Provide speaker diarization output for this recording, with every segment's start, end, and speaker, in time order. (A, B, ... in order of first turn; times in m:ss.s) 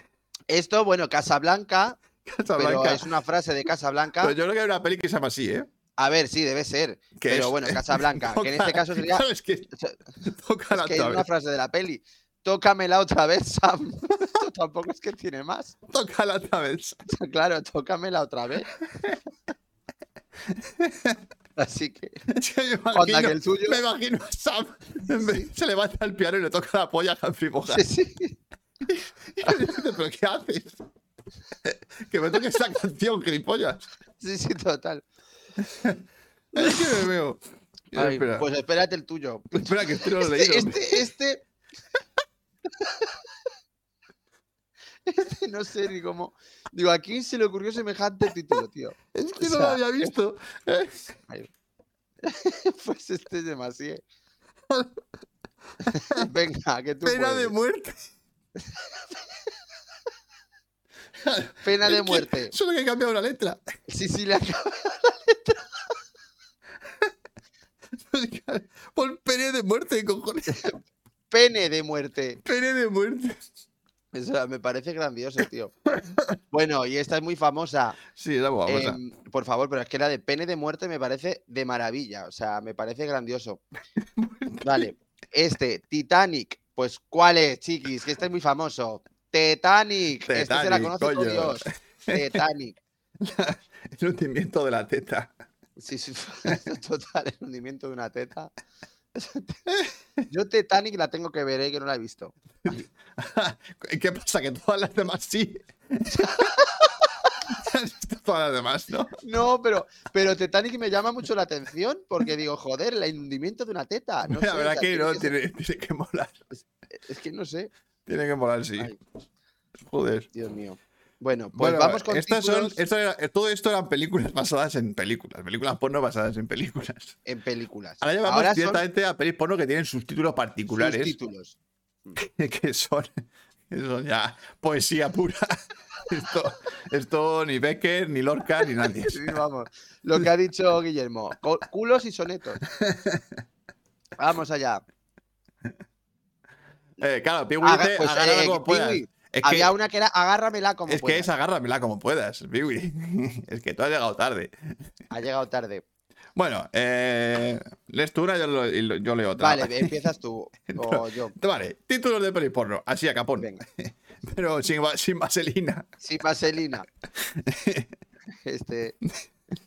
0:00.5-0:02.0 A
0:02.2-0:03.1 B
0:02.6-0:04.3 A
0:04.2-0:05.7 B
0:06.0-0:10.0 A
0:07.2-0:09.7 B
0:10.2-0:11.2 B
0:10.7-0:15.8 A
0:15.9-0:17.0 B
0:17.1-0:18.7 A
0:20.5-0:21.2 B
0:21.6-0:22.2 A
0:22.3-0:27.9 B
0:22.9-0:23.8 A
0:25.2-0:25.5 A
0:27.7-0:28.4 A
0:28.9-0:30.8 B
0:31.6-0:33.9 B
0:34.2-0:35.1 A
0:35.6-0:36.0 B
0:36.5-0:37.4 B
0:36.6-0:36.9 A
0:37.9-0:38.5 B
0:38.0-0:41.4 A
0:39.5-0:41.0 B
0:42.8-0:43.2 A
0:45.0-0:50.1 A
0:49.1-0:51.1 B
0:52.2-0:54.0 A
0:54.7-0:55.0 B
0:55.9-0:57.5 A
0:55.9-0:56.3 B
0:57.0-0:58.0 B
1:01.2-1:03.6 B
1:01.6-1:02.5 A
1:03.9-1:05.8 A
1:08.0-1:10.8 B
1:11.3-1:12.4 A
1:12.4-1:13.4 B
1:14.1-1:15.8 A
1:16.5-1:18.0 A
1:18.2-1:19.0 B
1:18.7-1:23.6 A
1:24.2-1:24.9 B
1:24.6-1:32.8 A
1:30.3-1:32.4 B
1:33.2-1:35.3 B
1:35.8-1:38.5 A
1:39.1-1:39.7 A
1:39.7-1:40.2 B
1:40.3-1:42.8 A
1:42.6-1:46.5 B
1:46.1-1:47.3 A
1:47.5-1:49.2 B
1:49.2-1:55.3 A
1:54.3-1:56.4 B
1:57.0-1:57.7 A
1:58.1-1:59.0 B
1:59.8-2:00.3 B
2:00.3-2:02.8 A
2:01.6-2:07.2 B
2:07.3-2:08.8 A
2:08.0-2:11.2 B
2:10.8-2:12.2 A
2:12.2-2:19.4 B
2:18.8-2:22.6 A
2:22.7-2:23.2 B
2:24.2-2:24.8 A
2:27.0-2:29.7 B
2:27.6-2:31.3 A
2:30.9-2:34.5 B
2:35.1-2:35.8 A
2:36.4-2:40.0 B
2:39.4-2:41.3 A
2:40.7-2:45.9 B
2:46.0-2:46.9 A
2:47.2-2:47.9 B
2:48.4-2:49.0 A